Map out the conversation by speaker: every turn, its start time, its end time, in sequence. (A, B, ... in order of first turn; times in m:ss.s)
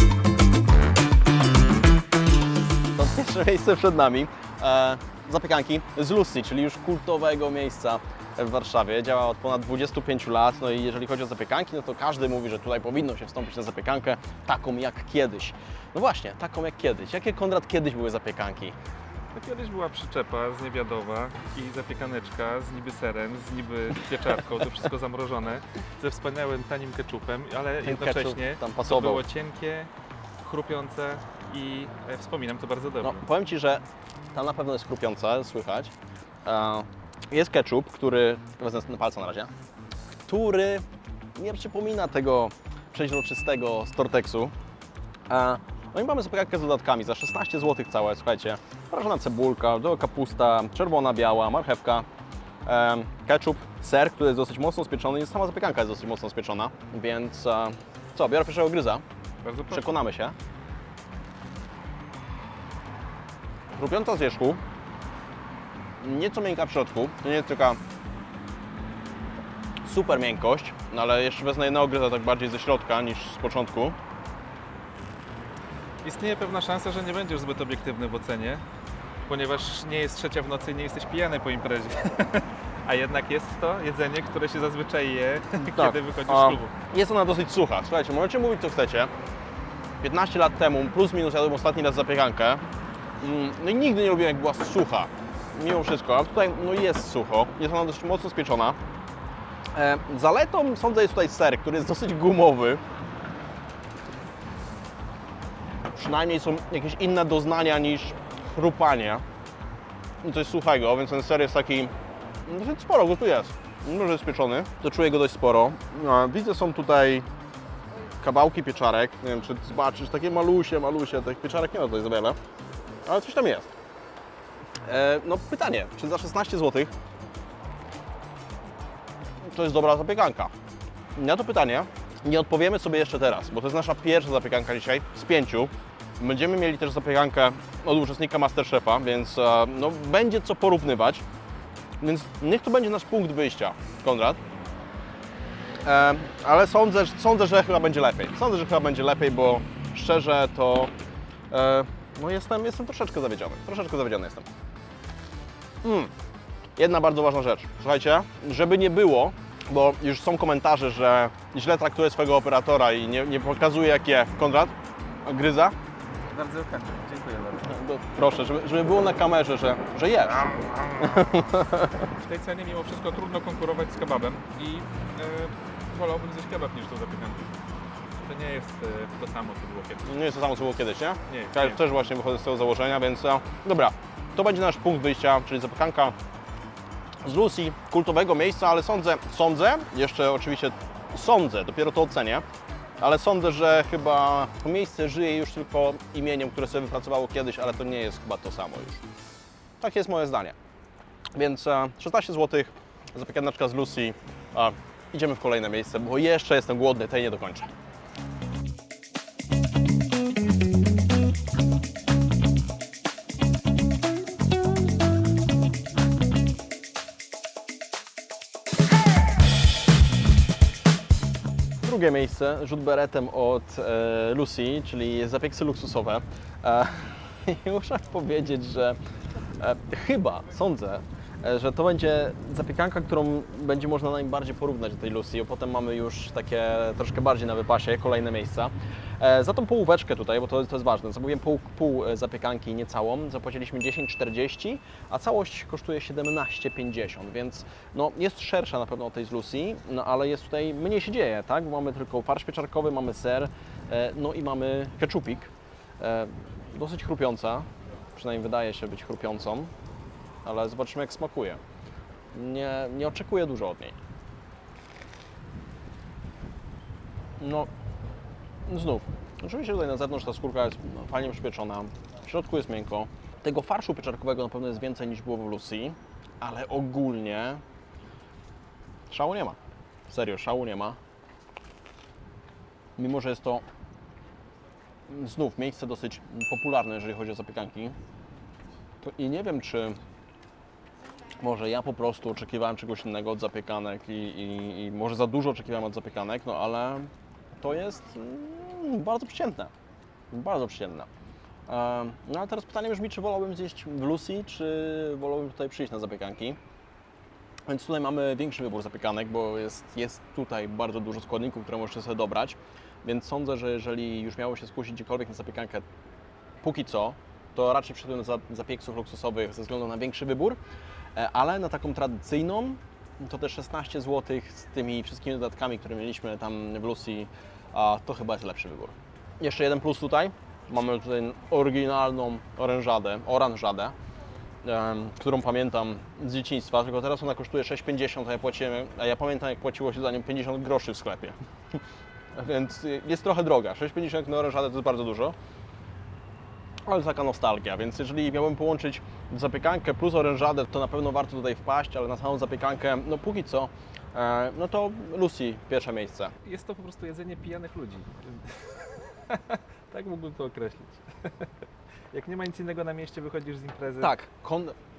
0:02.9-0:18.8 A
0:19.4-0:33.2 B
0:27.8-0:29.2 A
0:33.0-0:35.9 A
0:36.4-0:39.5 A
0:40.3-0:40.8 A
0:41.4-0:44.5 A
0:45.3-0:52.1 A
0:52.6-0:59.0 A
0:59.4-1:00.0 B
0:59.7-1:00.4 A
1:03.8-1:04.6 A
1:06.0-1:07.8 A
1:09.8-1:14.0 A
1:16.0-1:18.6 B
1:19.3-1:26.7 B
1:25.6-1:29.1 A
1:30.0-1:32.6 A
1:33.2-1:38.8 A
1:39.8-1:42.8 A
1:46.0-1:49.2 A
1:50.2-1:51.9 A
1:52.5-1:57.3 A
1:58.2-2:02.4 A
2:03.1-2:03.7 A
2:04.9-2:06.9 A
2:09.4-2:10.5 A
2:11.2-2:21.2 A
2:22.0-2:24.4 A
2:25.8-2:30.9 A
2:31.5-2:34.5 A
2:35.8-2:36.1 A
2:36.8-2:45.8 A
2:46.2-2:47.8 B
2:47.6-2:52.0 A
2:50.5-2:51.2 B
2:52.1-2:57.5 B
2:58.2-3:00.2 B
3:00.0-3:06.2 A
3:01.3-3:01.8 B
3:07.2-3:12.4 A
3:13.0-3:19.0 A
3:19.8-3:20.6 A
3:21.4-3:27.7 A
3:41.8-3:49.0 A
3:49.6-4:19.7 A
4:20.4-4:21.6 A
4:22.3-4:24.0 A
4:27.4-4:27.7 A
4:28.7-4:37.6 A
4:39.1-4:39.6 A
4:40.1-4:41.0 A
4:43.0-4:43.6 A
4:45.1-4:48.0 A
4:49.0-4:50.0 A
4:51.4-4:59.7 A
5:00.3-5:01.1 A
5:01.7-5:06.6 A
5:07.7-5:15.8 A
5:16.6-5:20.6 A
5:21.2-5:33.9 A
5:34.6-5:41.4 A
5:42.3-5:45.4 A
5:46.9-5:56.4 A
5:56.4-6:01.5 B
6:02.1-6:04.1 B
6:04.0-6:04.8 A